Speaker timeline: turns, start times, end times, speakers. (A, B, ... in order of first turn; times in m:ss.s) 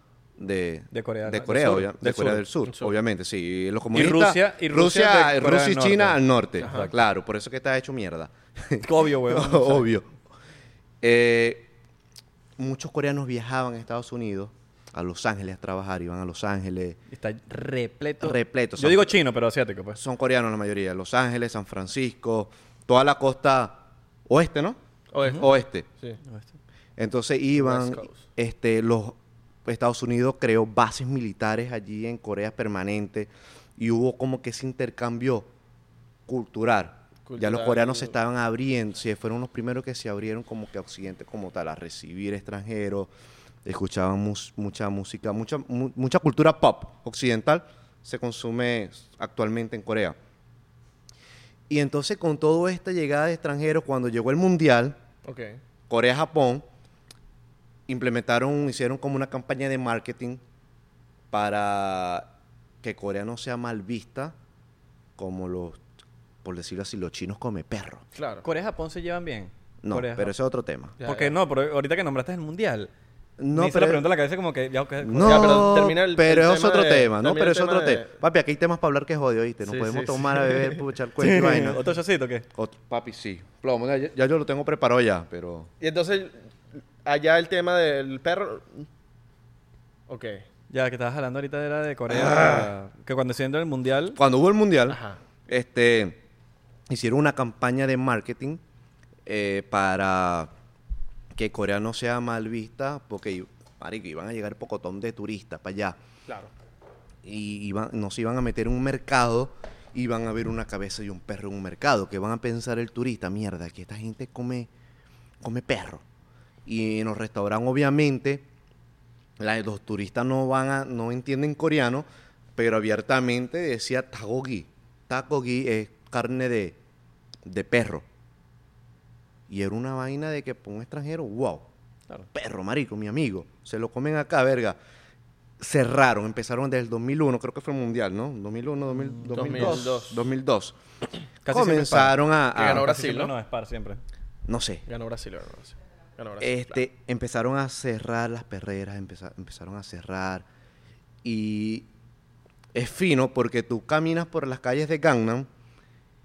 0:00.4-0:10.1 A
0:00.9-0:02.4 B
0:03.9-0:06.9 B
0:06.6-0:06.9 C
0:08.8-0:09.8 B
0:11.0-0:11.7 A
0:12.6-0:17.0 A
0:17.1-0:20.0 B
0:18.2-0:19.1 A
0:20.0-0:24.8 A
0:25.1-0:26.2 C
0:25.4-0:25.8 A
0:27.0-0:35.5 A
0:27.6-0:28.2 C
0:36.3-0:43.1 A
0:37.2-0:38.1 C
0:43.6-0:50.2 A
0:51.7-0:55.0 A
0:55.2-0:55.6 C
0:55.9-0:56.6 A
0:57.9-1:00.4 A
1:01.3-1:02.3 A
1:02.8-1:04.3 A
1:05.2-1:05.8 A
1:06.4-1:08.0 A
1:08.2-1:08.4 C
1:08.4-1:10.3 B
1:09.8-1:10.9 A
1:11.0-1:11.3 C
1:11.0-1:12.9 B
1:13.4-1:14.0 A
1:13.5-1:15.7 B
1:15.0-1:21.8 A
1:15.2-1:18.1 C
1:19.6-1:20.7 C
1:21.2-1:22.4 B
1:22.5-1:25.7 A
1:25.8-1:26.4 C
1:27.0-1:28.8 C
1:30.1-1:30.4 C
1:30.7-1:34.2 B
1:32.2-1:32.6 A
1:34.1-1:36.2 A
1:34.9-1:35.2 C
1:36.9-1:38.6 A
1:39.2-1:40.5 A
1:41.3-1:46.0 A
1:47.2-1:54.7 A
1:55.4-1:56.0 A
1:56.6-1:58.4 A
1:59.4-2:06.8 A
2:07.4-2:08.0 A
2:09.5-2:11.7 A
2:12.3-2:14.8 A
2:15.6-2:20.8 A
2:19.0-2:20.0 B
2:19.3-2:20.2 C
2:21.4-2:24.0 B
2:21.5-2:22.9 A
2:22.6-2:23.3 C
2:24.5-2:24.8 A
2:24.9-2:26.8 C
2:26.4-2:30.4 A
2:31.2-2:31.9 A
2:32.7-2:35.5 A